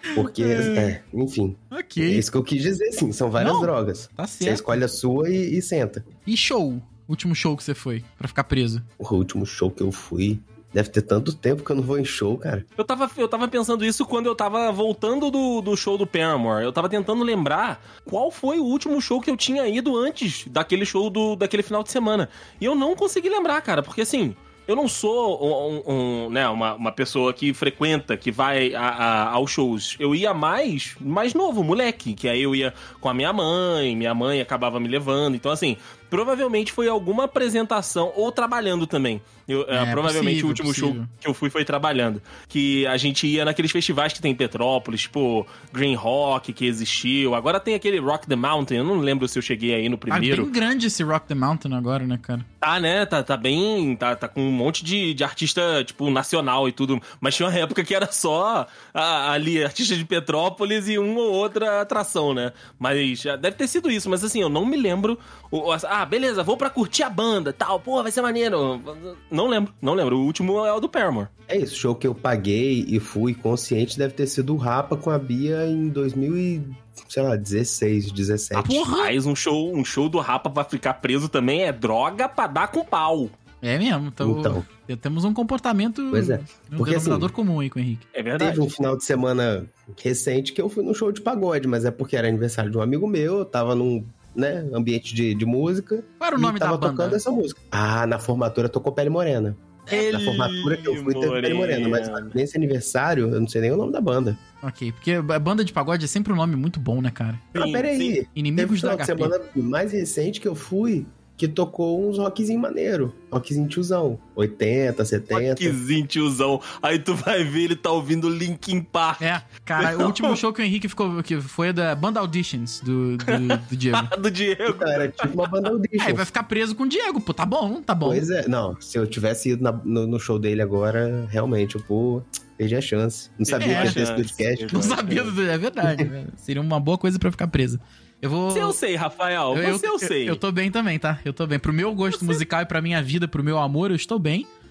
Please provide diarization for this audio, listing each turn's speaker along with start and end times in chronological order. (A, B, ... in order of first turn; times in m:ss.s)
0:00.1-0:00.9 A
0:00.2-0:06.1 B
0:01.7-0:02.2 A
0:03.4-0:04.8 A
0:06.2-0:08.8 A
0:09.0-0:12.7 B
0:12.8-0:50.5 C
0:39.7-0:41.1 A
0:50.1-0:52.5 A
0:52.6-1:11.3 C
1:11.5-1:18.8 B
1:18.6-1:19.1 A
1:18.9-1:23.4 C
1:23.6-1:28.0 A
1:24.2-1:24.6 B
1:26.1-1:27.3 B
1:28.2-1:28.7 C
1:28.4-1:44.4 B
1:36.2-1:37.2 A
1:39.9-1:42.3 C
1:44.6-1:47.5 A
1:47.5-1:55.8 B
1:47.6-1:48.2 C
1:48.4-1:49.3 A
1:55.3-2:00.4 C
1:59.2-2:04.1 A
2:03.3-2:05.4 C
2:04.7-2:06.3 B
2:06.0-2:08.3 A
2:08.0-2:15.0 B
2:13.5-2:15.4 C
2:13.6-2:14.0 A
2:14.7-2:18.8 A
2:18.5-2:20.4 C
2:19.5-2:24.5 A
2:22.1-2:22.4 C